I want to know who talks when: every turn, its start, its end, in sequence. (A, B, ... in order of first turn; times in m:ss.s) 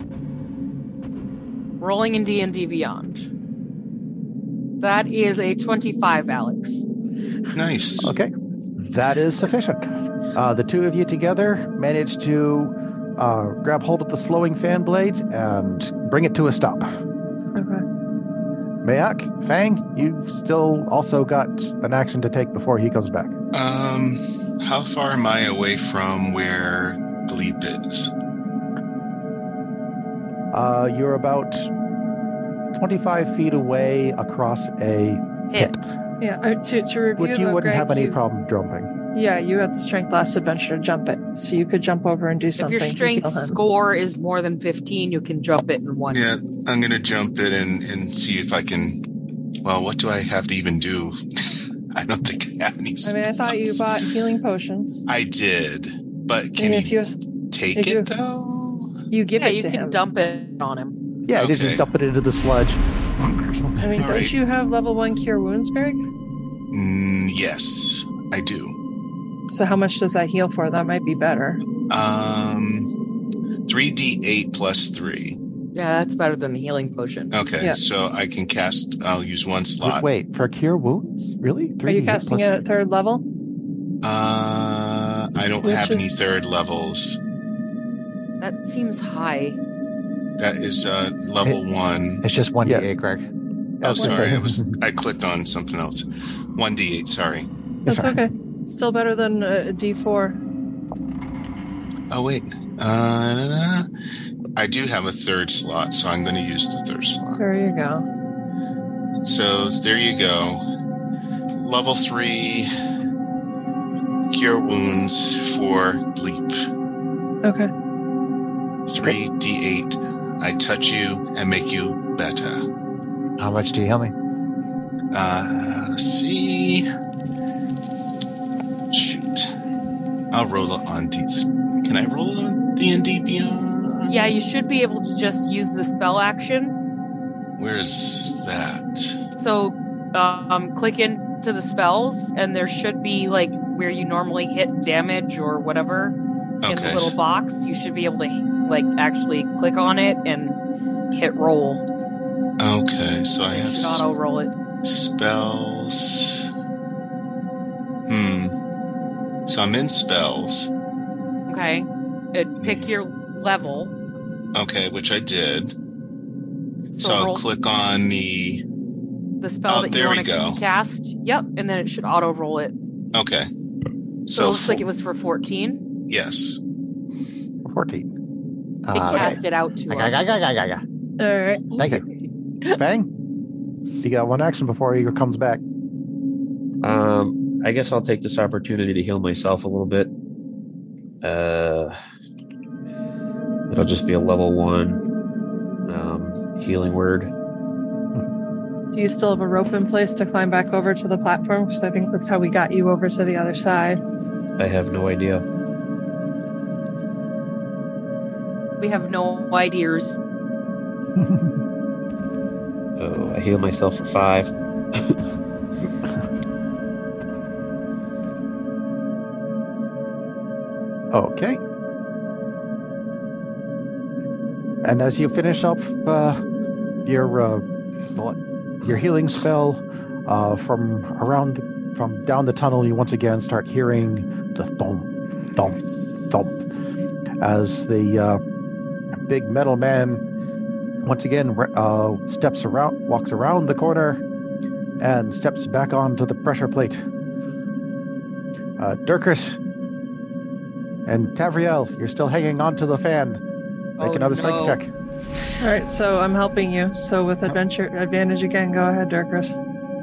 0:01.8-0:03.3 A
0:04.8-0:06.8 A
0:07.5-0:08.2 B
0:08.0-0:16.9 C
0:17.6-0:17.8 D
0:18.8-0:23.3 C
0:23.5-0:28.1 B
0:30.5-0:31.7 C
0:32.7-0:35.7 C
0:35.5-0:36.0 A
0:36.2-0:38.2 D
0:37.2-0:38.9 C
0:39.1-0:43.6 D
0:42.6-0:46.3 A
0:46.1-0:49.0 B
0:49.6-0:53.9 B
0:53.0-0:55.0 D
0:55.1-0:56.9 B
0:56.6-0:57.2 D
0:57.5-0:58.9 B
0:57.8-0:58.1 D
0:59.1-1:00.0 D
0:59.4-1:01.0 A
1:01.3-1:04.3 C
1:01.4-1:01.8 B
1:03.8-1:06.0 D
1:04.0-1:04.4 B
1:06.7-1:08.8 B
1:09.5-1:11.6 D
1:11.9-1:12.9 B
1:13.7-1:15.4 B
1:15.7-1:17.3 A
1:17.3-1:20.1 B
1:19.8-1:22.6 C
1:21.9-1:23.2 D
1:24.0-1:27.2 B
1:25.6-1:26.1 D
1:28.4-1:29.6 A
1:30.4-1:32.2 B
1:32.2-1:33.3 E
1:33.8-1:34.8 C
1:33.8-1:37.5 B
1:37.8-1:38.2 C
1:37.9-1:40.4 D
1:42.1-1:43.9 B
1:44.6-1:47.4 B
1:47.4-1:48.0 D
1:49.2-1:50.6 B
1:51.6-1:52.7 B
1:54.3-1:56.6 B
1:57.4-1:57.7 D
1:58.9-2:02.6 B
2:03.4-2:04.1 E
2:05.1-2:06.8 B
2:08.9-2:09.5 B
2:10.3-2:14.3 B
2:14.1-2:16.8 A
2:17.6-2:19.2 B
2:19.3-2:30.6 A
2:26.6-2:27.2 B
2:31.1-2:31.8 A
2:32.6-2:34.0 B
2:33.5-2:34.5 A
2:34.8-2:36.4 B
2:38.1-2:38.6 B
2:39.5-2:40.7 B
2:41.5-2:43.9 A
2:42.6-2:42.9 B
2:44.6-2:45.7 B
2:46.9-2:47.5 A
2:47.0-2:48.6 B
2:49.4-2:52.8 A
2:49.7-2:50.6 B
2:53.1-2:53.5 B
2:54.3-2:54.9 B
2:54.3-2:55.8 A
2:56.1-2:56.6 B
2:57.6-2:58.1 C
2:58.9-3:00.8 E
2:58.9-3:00.3 A
3:01.2-3:02.0 D
3:02.8-3:03.1 C
3:04.0-3:05.6 C
3:06.8-3:10.1 F
3:11.2-3:12.0 F
3:13.7-3:15.0 F
3:15.9-3:17.3 F
3:18.9-3:24.0 D
3:24.6-3:25.4 F
3:28.8-3:30.2 A
3:33.0-3:35.2 F
3:41.1-3:41.6 C
3:44.8-3:46.4 C
3:47.0-3:56.6 C
3:57.4-3:58.4 C
3:59.1-4:00.2 C
4:01.0-4:04.2 C
4:05.0-4:07.0 C
4:08.8-4:09.6 C
4:11.1-4:13.4 C
4:14.0-4:14.8 A
4:14.0-4:14.9 C
4:15.6-4:19.6 D